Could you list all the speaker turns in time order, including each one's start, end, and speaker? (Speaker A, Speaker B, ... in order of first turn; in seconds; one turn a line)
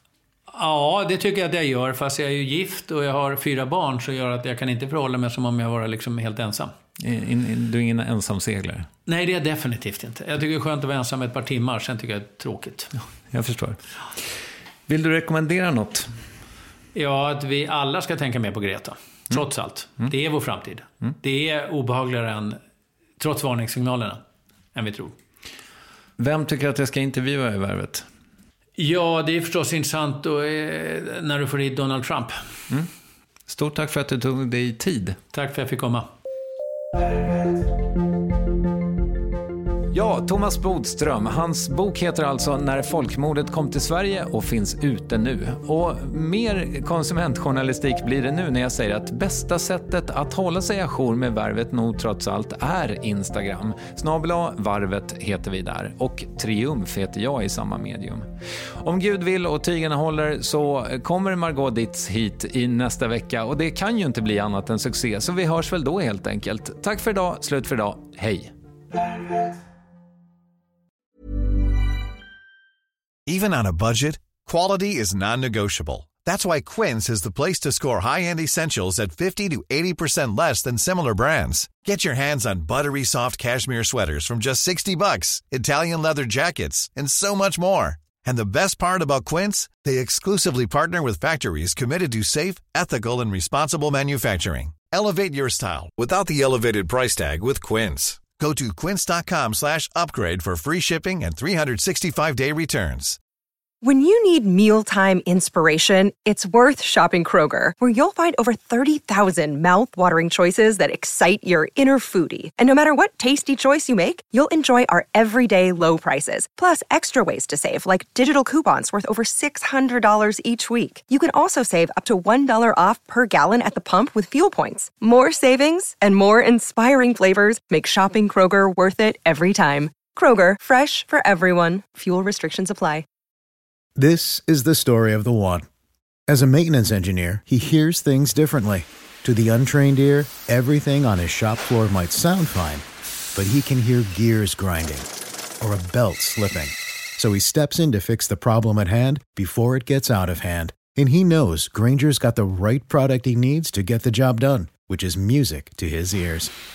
Speaker A: 0.5-6.7
Speaker B: 7.0-8.9
Speaker A: 9.1-12.9
Speaker B: 13.3-13.8
Speaker B: 14.9-16.1
Speaker A: 16.9-22.6
Speaker A: 23.2-24.2
Speaker A: 24.7-25.1
Speaker B: 26.2-28.1
Speaker A: 28.8-32.4
Speaker B: 33.5-35.2
Speaker A: 35.3-36.1
Speaker B: 39.9-68.5
Speaker C: 73.3-103.2
Speaker D: 103.8-133.1
Speaker E: 134.0-135.7
Speaker E: 136.3-142.8
Speaker E: 143.3-145.1
Speaker E: 145.6-156.5